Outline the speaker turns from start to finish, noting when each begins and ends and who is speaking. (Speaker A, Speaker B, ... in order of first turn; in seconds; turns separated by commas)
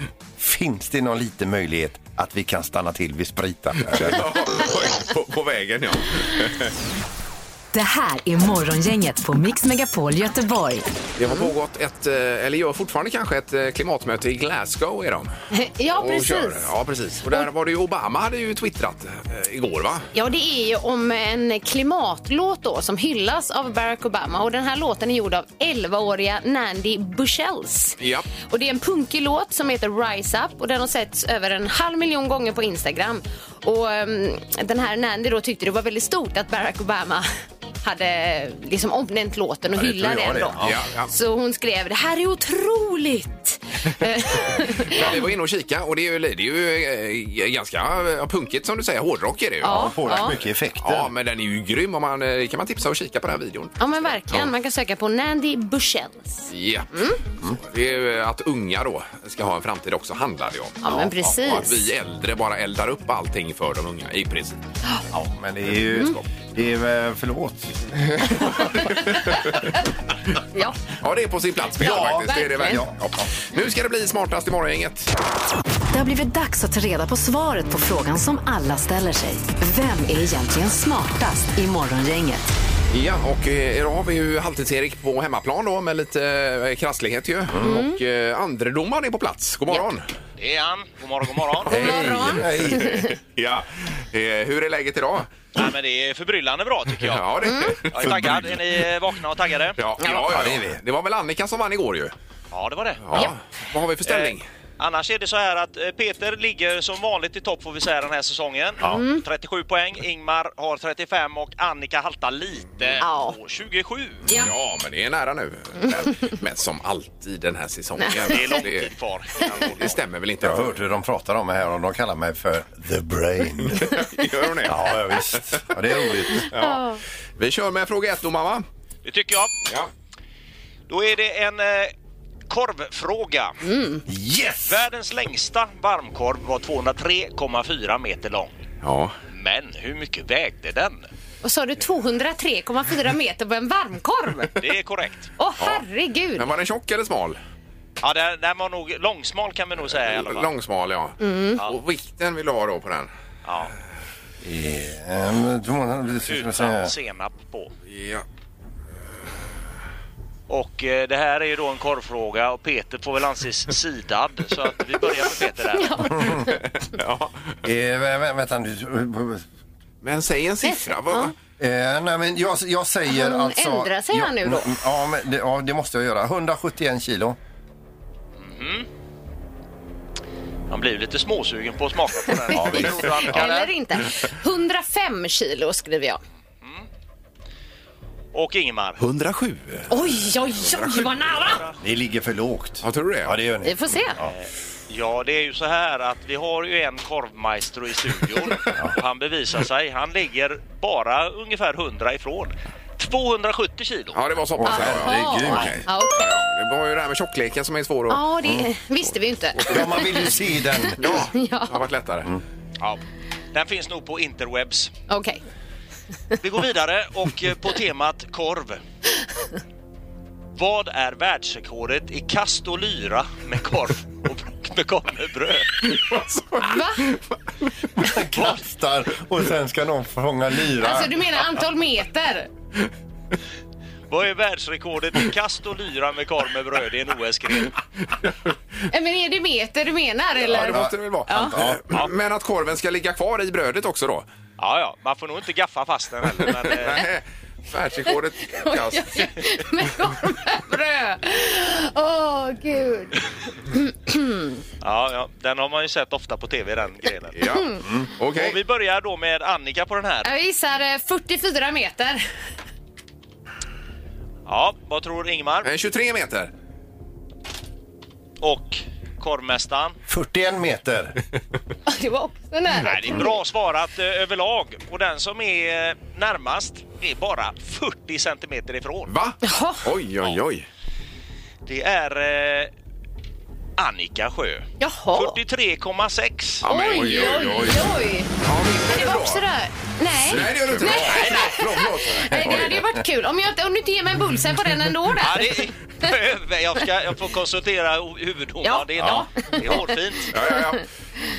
Speaker A: 0.4-4.4, Speaker B: 3.8-6.7, Speaker C: 7.7-10.9, Speaker B: 11.2-15.3, Speaker D: 15.5-16.7, Speaker B: 15.9-20.1, Speaker D: 20.1-37.3, Speaker B: 28.0-28.2, Speaker D: 37.8-45.1, Speaker A: 39.7-40.8, Speaker B: 40.6-41.1, Speaker B: 44.5-50.2, Speaker D: 49.6-50.3, Speaker A: 49.6-51.1, Speaker B: 50.8-53.8, Speaker D: 53.8-57.2, Speaker B: 56.5-56.9, Speaker B: 57.4-64.6, Speaker D: 60.8-61.9, Speaker A: 65.1-67.8, Speaker B: 68.1-69.7, Speaker D: 68.9-69.4, Speaker B: 71.0-75.1, Speaker A: 71.8-73.2, Speaker D: 71.8-72.8, Speaker C: 75.9-82.5, Speaker B: 82.9-90.1, Speaker A: 87.5-87.8, Speaker D: 87.6-88.0, Speaker E: 90.4-91.9, Speaker A: 91.7-93.1, Speaker D: 91.7-93.1, Speaker B: 92.3-95.5, Speaker E: 95.5-97.3, Speaker B: 97.0-98.6, Speaker D: 97.4-97.7, Speaker E: 97.9-99.8, Speaker A: 98.0-98.4, Speaker B: 99.8-102.1, Speaker A: 100.3-100.8, Speaker E: 102.5-103.3, Speaker B: 103.0-104.4, Speaker E: 104.0-114.2, Speaker D: 108.9-109.2, Speaker D: 113.0-113.4, Speaker B: 114.3-118.9, Speaker D: 118.0-118.6, Speaker E: 118.3-119.9, Speaker B: 119.5-120.8, Speaker A: 120.4-123.9, Speaker B: 123.7-125.5, Speaker A: 124.6-126.5, Speaker B: 126.4-126.8, Speaker D: 126.5-127.0, Speaker B: 127.4-128.7, Speaker E: 129.0-129.5, Speaker E: 130.9-131.9, Speaker E: 132.5-133.6, Speaker D: 133.6-134.0, Speaker A: 134.1-134.8, Speaker E: 134.7-138.6, Speaker B: 138.8-139.1, Speaker E: 139.3-141.1, Speaker D: 141.4-144.5, Speaker E: 144.6-145.3, Speaker D: 145.4-146.5, Speaker B: 145.6-145.8, Speaker B: 146.3-147.4, Speaker E: 148.0-150.5, Speaker B: 149.9-153.1, Speaker D: 151.2-151.6, Speaker E: 153.4-153.7, Speaker A: 154.4-156.9, Speaker E: 156.3-157.7, Speaker B: 157.9-158.2, Speaker E: 160.5-166.1, Speaker D: 165.7-166.5, Speaker B: 166.7-167.5, Speaker A: 167.6-169.4, Speaker B: 170.0-171.3, Speaker D: 170.6-171.3, Speaker A: 171.6-177.4, Speaker D: 173.1-174.8, Speaker E: 178.4-178.9, Speaker E: 180.7-183.7, Speaker A: 182.5-183.1, Speaker D: 182.7-186.2, Speaker E: 188.3-189.0, Speaker B: 189.0-189.9, Speaker D: 189.9-191.6, Speaker A: 191.8-194.3, Speaker B: 192.8-193.3, Speaker D: 193.6-194.2, Speaker E: 194.9-204.2, Speaker B: 204.1-208.2, Speaker A: 204.6-205.8, Speaker D: 204.7-206.3, Speaker D: 208.1-211.7, Speaker A: 209.7-211.0, Speaker B: 211.0-212.3, Speaker E: 213.5-214.9, Speaker D: 215.1-215.4, Speaker E: 216.4-218.8, Speaker E: 220.5-225.8, Speaker B: 225.8-227.3, Speaker D: 226.6-227.0, Speaker A: 228.0-231.1, Speaker D: 230.8-232.5, Speaker E: 234.1-237.8, Speaker D: 238.9-241.6, Speaker B: 240.4-244.2, Speaker A: 240.5-240.9, Speaker A: 241.5-241.8, Speaker E: 244.6-247.1, Speaker B: 246.4-249.2, Speaker D: 248.5-254.6, Speaker E: 254.8-257.6, Speaker B: 257.4-258.6, Speaker E: 258.3-260.3, Speaker D: 260.2-262.2, Speaker E: 264.4-265.7, Speaker B: 265.6-266.5, Speaker E: 268.4-270.0, Speaker A: 270.1-271.2, Speaker D: 271.9-273.4, Speaker E: 272.7-279.1, Speaker B: 279.1-280.7, Speaker D: 279.4-279.8, Speaker E: 281.6-282.7, Speaker E: 283.8-286.7, Speaker D: 284.8-285.4, Speaker B: 286.6-289.4, Speaker D: 286.6-288.3, Speaker D: 288.9-295.7, Speaker B: 290.2-292.8, Speaker E: 291.0-291.5, Speaker E: 295.2-300.3, Speaker D: 298.6-299.8, Speaker A: 299.0-299.2, Speaker B: 300.3-300.8